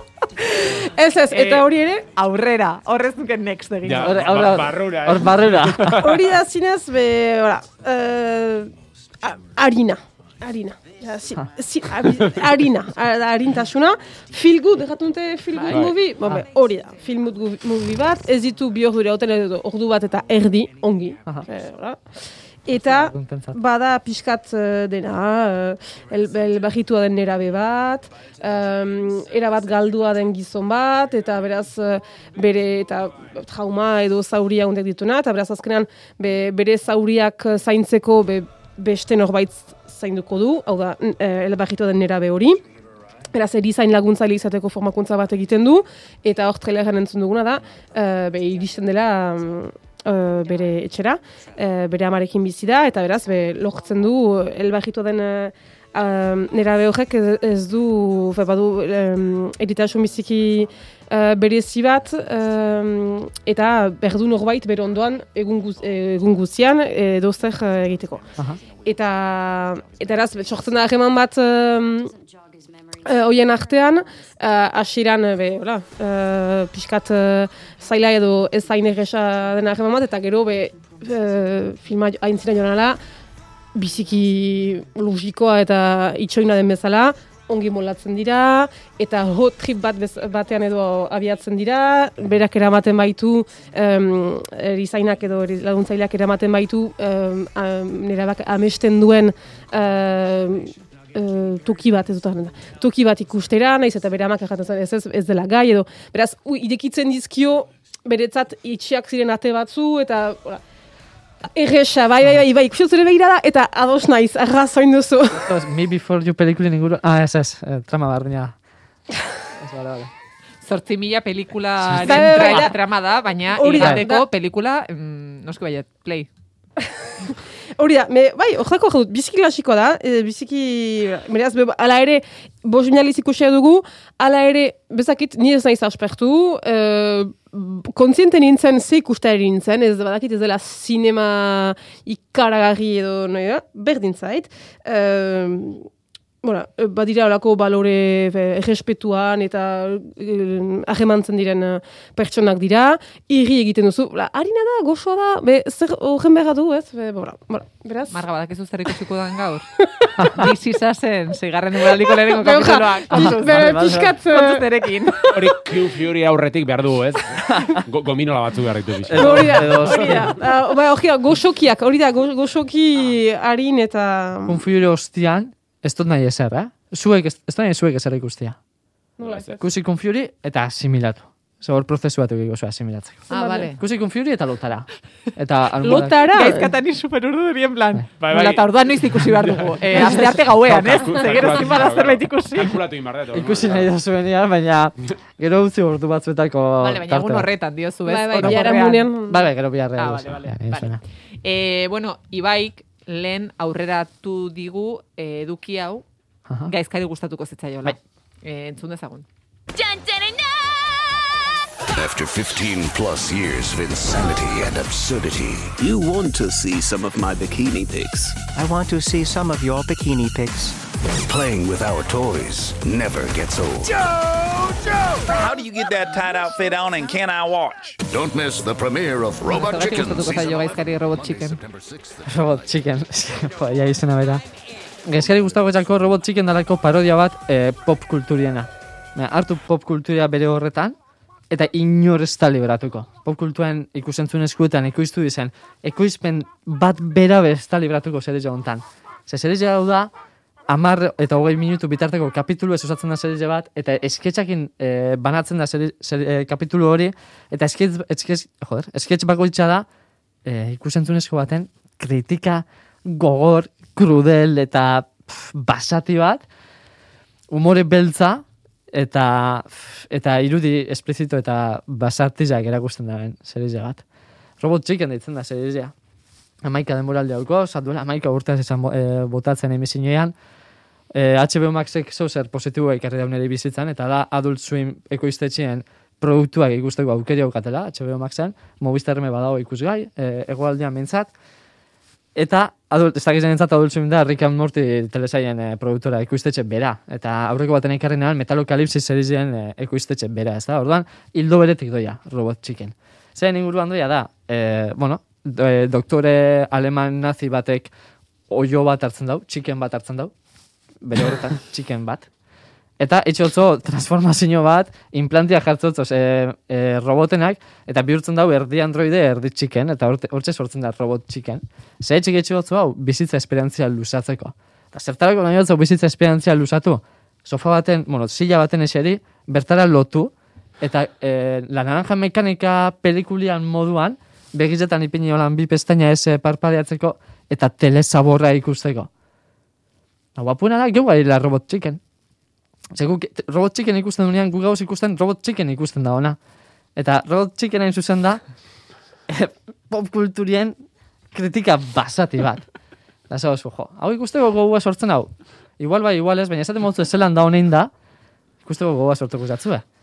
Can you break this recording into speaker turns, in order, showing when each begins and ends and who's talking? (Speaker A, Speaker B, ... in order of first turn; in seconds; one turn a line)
Speaker A: 0.4-2.0
Speaker B: 1.3-4.2
Speaker C: 3.8-6.2
Speaker D: 4.0-6.0
Speaker A: 6.0-42.6
Speaker B: 15.5-15.9
Speaker C: 15.7-16.0
Speaker D: 22.7-23.6
Speaker A: 43.3-72.1
Speaker A: 73.0-83.0
Speaker A: 83.7-110.6
Speaker A: 111.5-115.5
Speaker D: 115.3-118.5
Speaker D: 119.5-120.1
Speaker B: 120.6-126.3
Speaker D: 121.8-122.7
Speaker A: 122.0-122.8
Speaker A: 123.5-124.2
Speaker D: 123.8-124.0
Speaker A: 127.0-145.9
Speaker A: 146.4-158.2
Speaker B: 158.1-159.7
Speaker A: 160.0-160.4
Speaker B: 160.4-165.3
Speaker A: 162.2-164.7
Speaker D: 163.1-164.1
Speaker C: 165.3-169.9
Speaker D: 167.5-167.8
Speaker D: 169.1-170.3
Speaker A: 169.1-174.6
Speaker D: 174.4-178.6
Speaker A: 179.2-179.6
Speaker C: 179.2-179.5
Speaker D: 179.6-186.1
Speaker B: 183.3-183.8
Speaker A: 183.3-183.7
Speaker A: 185.8-186.7
Speaker B: 186.3-192.8
Speaker C: 188.2-189.8
Speaker C: 190.4-193.9
Speaker D: 193.3-197.5
Speaker B: 196.8-199.1
Speaker A: 198.1-199.5
Speaker D: 198.4-201.0
Speaker B: 200.0-206.0
Speaker D: 206.5-206.7
Speaker B: 206.7-209.2
Speaker E: 212.0-214.1
Speaker E: 214.7-215.6
Speaker F: 215.7-218.4
Speaker G: 218.5-220.8
Speaker E: 221.4-223.2
Speaker H: 225.2-228.0
Speaker E: 228.1-232.2
Speaker B: 229.5-231.6
Speaker D: 232.2-234.4
Speaker D: 235.1-241.0
Speaker D: 241.5-250.1
Speaker D: 250.7-259.9
Speaker D: 260.4-266.4
Speaker D: 267.5-274.0
Speaker D: 274.6-275.9
Speaker D: 276.6-280.3
Speaker D: 281.1-291.3
Speaker D: 292.3-307.9
Speaker D: 308.5-310.3
Speaker D: 311.0-312.3
Speaker D: 313.0-339.1
Speaker D: 340.4-342.0
Speaker D: 342.9-346.4
Speaker D: 346.9-348.4
Speaker D: 349.3-350.8
Speaker D: 351.3-352.7
Speaker D: 353.3-357.9
Speaker D: 358.6-359.8